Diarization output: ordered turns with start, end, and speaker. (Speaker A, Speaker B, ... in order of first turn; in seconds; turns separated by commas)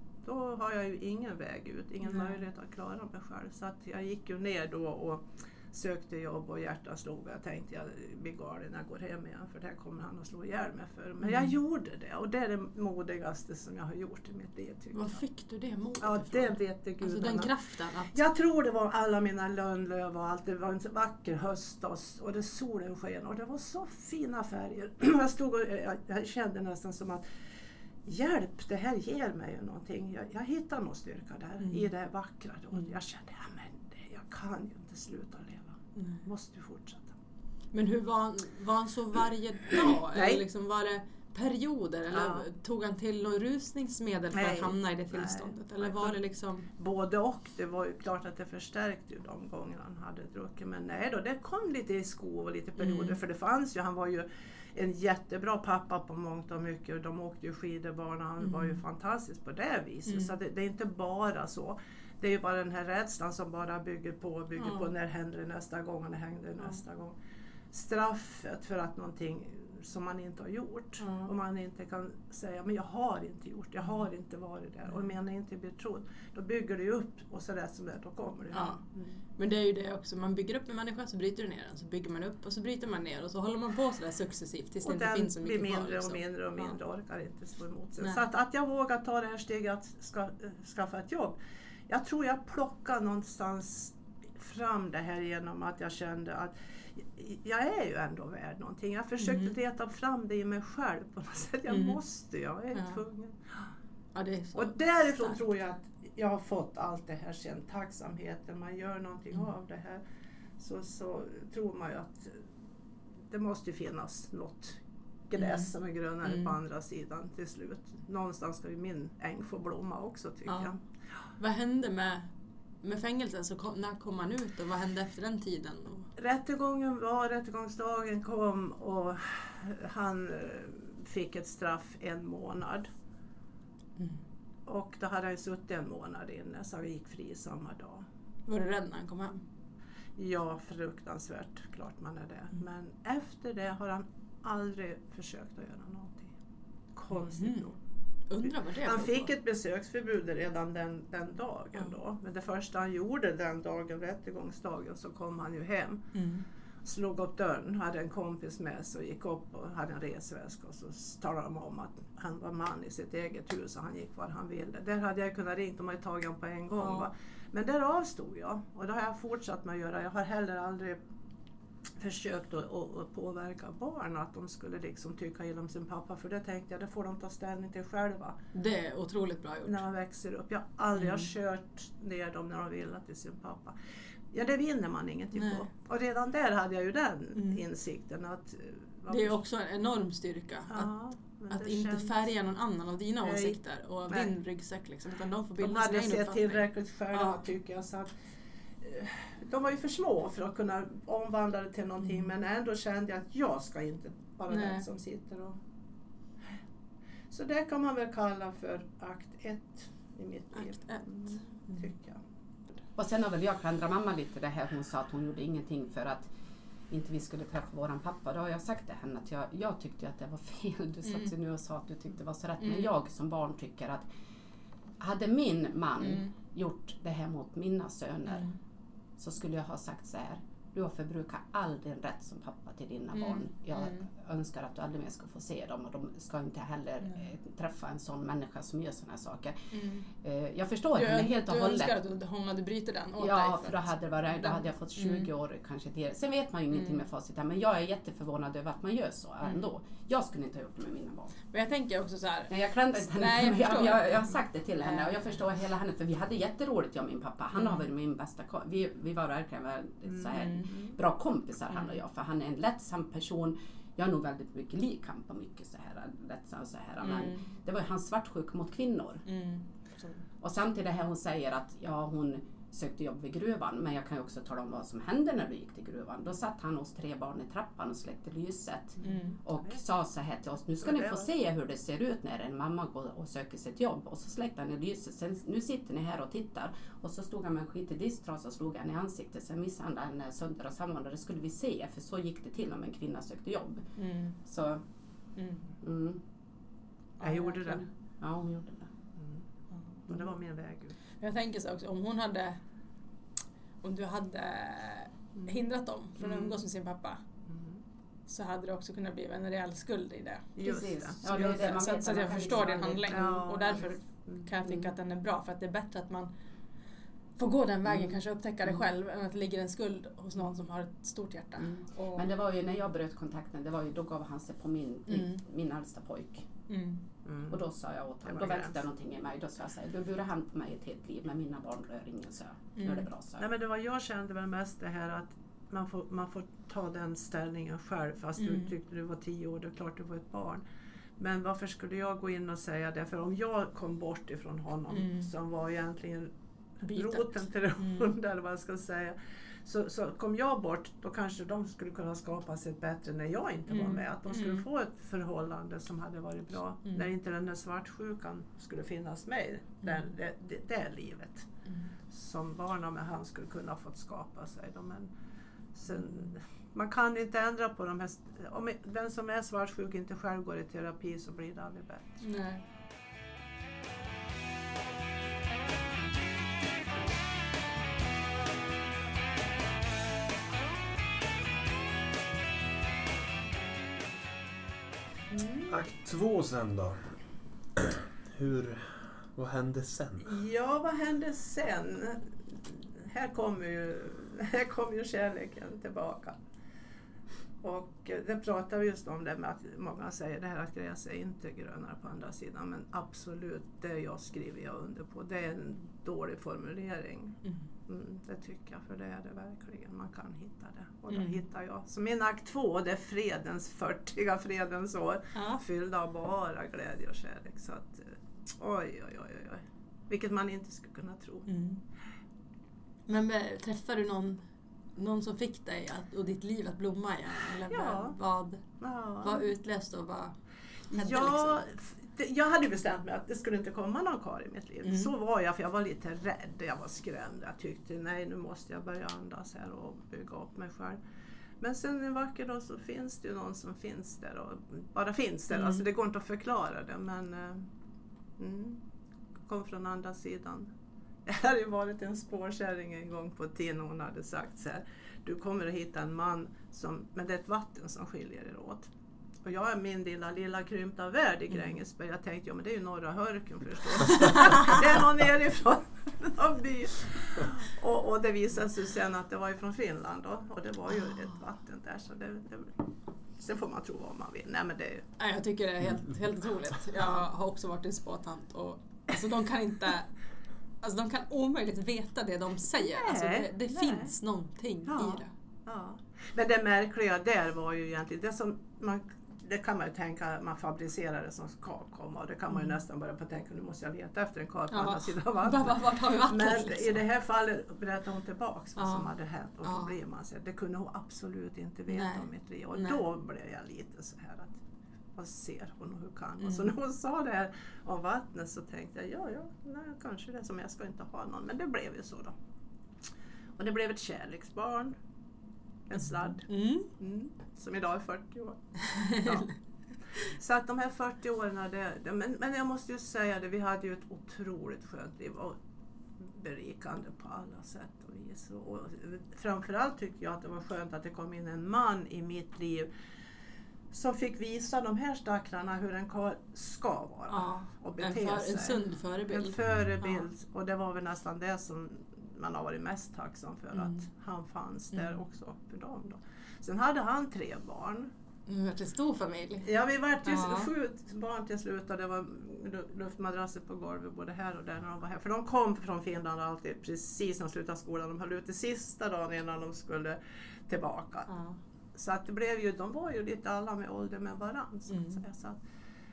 Speaker A: 0.2-15.2, Speaker B: 2.0-2.4, Speaker B: 11.2-11.6, Speaker B: 14.9-18.1, Speaker A: 16.0-17.5, Speaker A: 18.1-27.2, Speaker A: 28.1-37.1, Speaker B: 31.6-31.9, Speaker B: 36.0-36.3, Speaker B: 37.7-46.7, Speaker A: 40.1-40.4, Speaker A: 42.1-42.5, Speaker A: 44.3-46.2, Speaker A: 46.8-67.2, Speaker B: 52.8-53.2, Speaker B: 58.4-58.8, Speaker B: 60.1-60.3, Speaker B: 64.6-64.9, Speaker A: 67.7-79.2, Speaker B: 71.0-71.3, Speaker B: 78.5-78.8, Speaker B: 79.4-86.2, Speaker A: 84.8-91.4, Speaker A: 91.9-103.7, Speaker B: 99.2-99.5, Speaker B: 101.7-102.0, Speaker B: 102.7-103.0, Speaker B: 104.1-105.4, Speaker A: 104.5-110.0, Speaker A: 110.6-112.5, Speaker A: 113.3-120.8, Speaker B: 115.4-116.5, Speaker B: 120.5-120.8, Speaker B: 121.4-122.3, Speaker B: 122.8-126.1, Speaker A: 126.2-132.9, Speaker A: 134.7-138.1, Speaker B: 138.5-139.4, Speaker A: 140.2-146.3, Speaker A: 146.9-147.8, Speaker B: 147.1-147.7, Speaker B: 148.3-149.3, Speaker A: 148.4-156.1, Speaker B: 156.1-156.4, Speaker A: 156.8-171.0, Speaker B: 166.7-167.1, Speaker A: 172.0-178.4, Speaker B: 178.5-179.8, Speaker A: 179.7-183.8, Speaker B: 181.0-181.3, Speaker A: 184.3-189.4, Speaker B: 185.3-185.7, Speaker B: 187.4-187.6, Speaker B: 189.1-190.9, Speaker A: 190.7-192.2, Speaker B: 191.5-197.4, Speaker A: 193.2-193.6, Speaker A: 195.6-198.1, Speaker A: 198.8-205.6, Speaker B: 202.0-202.3, Speaker B: 204.5-204.8, Speaker A: 207.3-212.2, Speaker B: 210.6-211.9, Speaker C: 213.0-216.3, Speaker C: 216.9-224.1, Speaker B: 221.1-221.3, Speaker B: 222.6-222.9, Speaker C: 225.0-228.5, Speaker B: 226.0-226.3, Speaker B: 228.3-228.6, Speaker C: 229.2-239.6, Speaker B: 233.1-234.1, Speaker B: 239.7-240.1, Speaker C: 240.2-241.9, Speaker B: 240.9-245.3, Speaker C: 243.2-251.3, Speaker B: 249.4-249.7, Speaker B: 251.5-255.2, Speaker C: 252.5-269.2, Speaker B: 260.3-260.8, Speaker B: 261.7-262.0, Speaker B: 267.0-267.4, Speaker B: 269.3-270.2, Speaker C: 270.4-293.9, Speaker A: 279.0-279.8, Speaker B: 279.0-279.4, Speaker A: 280.8-281.3, Speaker B: 294.0-294.4, Speaker C: 294.4-294.8, Speaker B: 295.4-295.6, Speaker C: 295.8-296.2, Speaker A: 297.2-297.9, Speaker B: 297.3-297.8, Speaker C: 297.6-298.9, Speaker A: 299.2-299.4, Speaker A: 300.1-301.0, Speaker B: 301.2-302.6, Speaker B: 303.8-307.2, Speaker A: 306.2-306.6, Speaker A: 307.5-307.8, Speaker B: 308.3-310.7, Speaker A: 310.6-311.6, Speaker C: 310.6-313.3, Speaker B: 311.2-316.3, Speaker A: 313.1-314.5, Speaker B: 317.4-322.3, Speaker C: 317.9-318.2, Speaker C: 321.6-326.5, Speaker B: 325.1-325.4, Speaker B: 326.7-327.0, Speaker A: 327.2-327.6, Speaker C: 327.5-333.4, Speaker A: 328.2-328.8, Speaker B: 332.8-333.1, Speaker A: 333.4-340.6, Speaker B: 338.4-338.7, Speaker A: 341.2-346.3, Speaker B: 344.9-345.3, Speaker B: 346.9-348.1, Speaker A: 346.9-361.5, Speaker B: 353.7-354.6, Speaker B: 361.7-361.9, Speaker A: 362.1-365.1, Speaker A: 365.8-372.2, Speaker B: 365.9-366.2, Speaker B: 372.2-372.6, Speaker A: 385.3-385.8, Speaker D: 385.7-387.1, Speaker D: 387.8-390.4, Speaker A: 390.2-396.4, Speaker A: 397.6-421.5, Speaker B: 411.1-411.4, Speaker B: 415.4-415.6, Speaker B: 421.5-421.8, Speaker B: 423.1-424.4, Speaker B: 425.0-430.4, Speaker A: 427.7-428.2, Speaker A: 428.8-429.5, Speaker B: 430.9-431.6, Speaker A: 430.9-441.0, Speaker B: 434.9-435.1, Speaker A: 441.6-447.7, Speaker B: 445.5-445.8, Speaker A: 448.4-448.8, Speaker A: 449.4-450.7, Speaker A: 451.3-458.9, Speaker A: 459.4-472.8, Speaker B: 471.0-471.2, Speaker A: 473.4-475.1, Speaker B: 475.2-480.1, Speaker B: 480.8-485.3, Speaker A: 482.8-484.1, Speaker A: 484.9-504.6, Speaker B: 492.5-492.8, Speaker B: 494.7-497.0, Speaker B: 498.8-499.1, Speaker B: 499.6-499.9, Speaker B: 501.9-503.0, Speaker A: 505.1-512.4, Speaker B: 506.4-506.7, Speaker A: 513.6-515.0, Speaker A: 515.9-519.5, Speaker B: 516.0-516.9, Speaker B: 519.0-519.3, Speaker A: 520.1-525.6, Speaker A: 526.2-532.9, Speaker A: 533.9-548.1, Speaker B: 537.3-540.3, Speaker D: 539.6-540.0, Speaker B: 543.7-544.0, Speaker B: 548.5-549.7, Speaker A: 549.6-561.3, Speaker B: 550.2-550.7, Speaker B: 561.3-561.6, Speaker A: 562.0-565.6, Speaker B: 564.9-565.2